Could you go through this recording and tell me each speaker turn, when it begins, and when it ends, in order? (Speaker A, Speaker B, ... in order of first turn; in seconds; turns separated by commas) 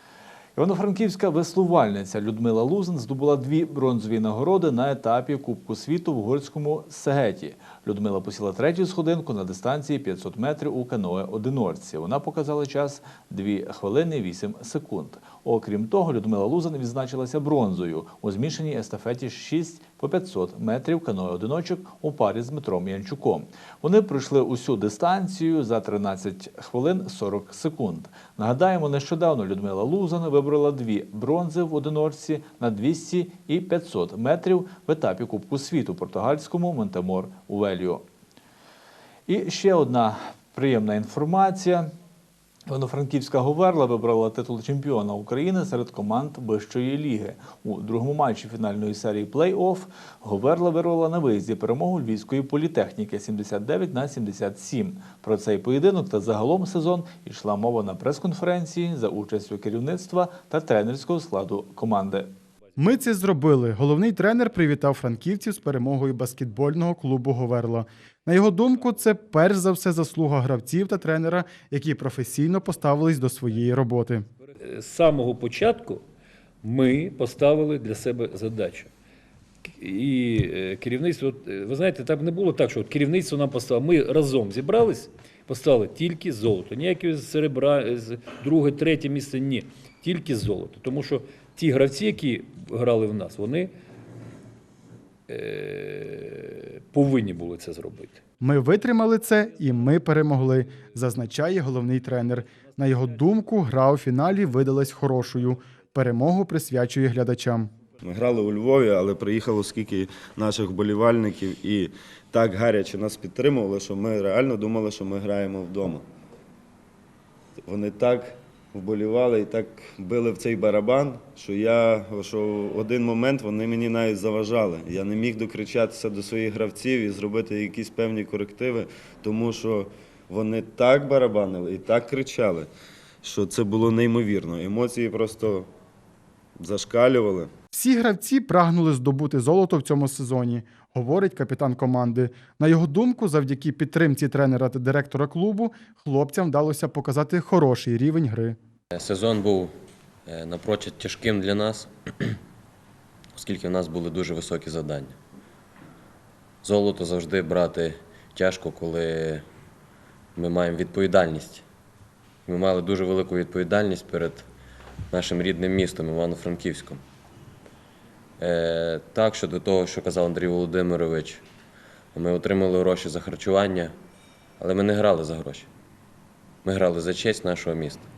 Speaker A: 0.6-38.0, Speaker A: 39.3-41.9, Speaker A: 42.7-62.3, Speaker B: 62.8-74.3, Speaker C: 74.6-76.0, Speaker C: 76.6-78.9, Speaker C: 79.7-93.7, Speaker C: 95.3-98.2, Speaker B: 98.4-107.7, Speaker D: 108.0-116.0, Speaker D: 117.6-132.7, Speaker D: 133.2-135.7, Speaker D: 136.6-137.5, Speaker B: 137.7-148.6, Speaker E: 148.9-149.7, Speaker E: 150.2-152.3, Speaker E: 153.3-155.2, Speaker E: 156.6-159.4, Speaker E: 160.3-161.6, Speaker E: 162.4-164.5, Speaker E: 165.1-167.0, Speaker E: 168.4-171.4, Speaker E: 172.1-173.9, Speaker E: 174.6-175.7, Speaker E: 176.6-178.1